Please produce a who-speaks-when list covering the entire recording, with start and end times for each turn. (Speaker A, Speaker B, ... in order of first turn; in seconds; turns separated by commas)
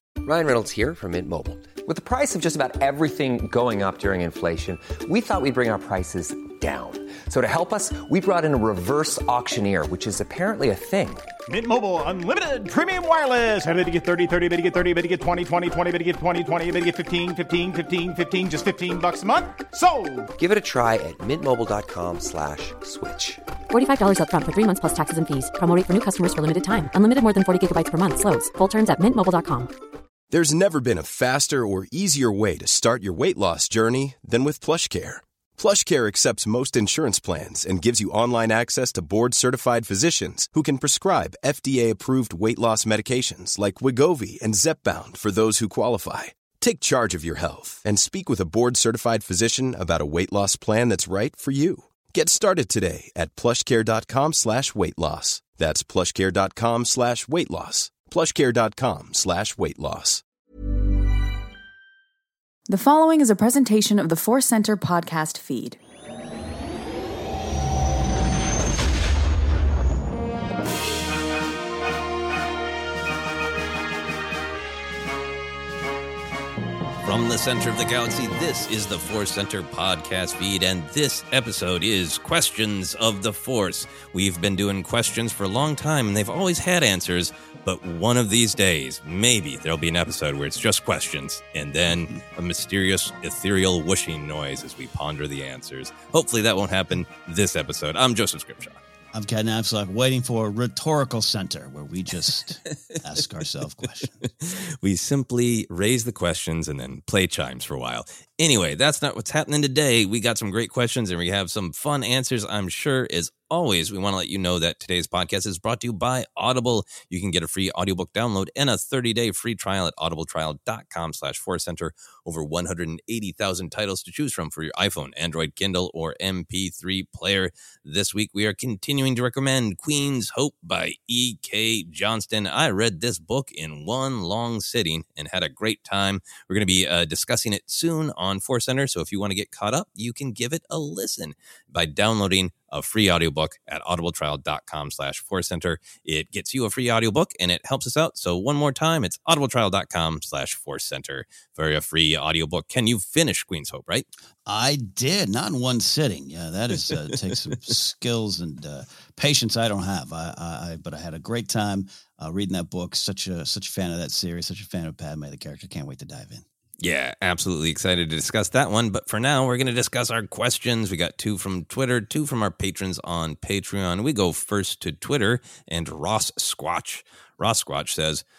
Speaker A: 0.2-11.3, Speaker B: 11.5-20.3, Speaker A: 20.4-23.4, Speaker C: 23.7-29.7, Speaker D: 30.3-60.2, Speaker E: 62.7-65.8, Speaker F: 77.0-98.8, Speaker G: 99.1-104.3, Speaker F: 104.5-154.1, Speaker G: 154.5-166.4, Speaker F: 166.8-178.2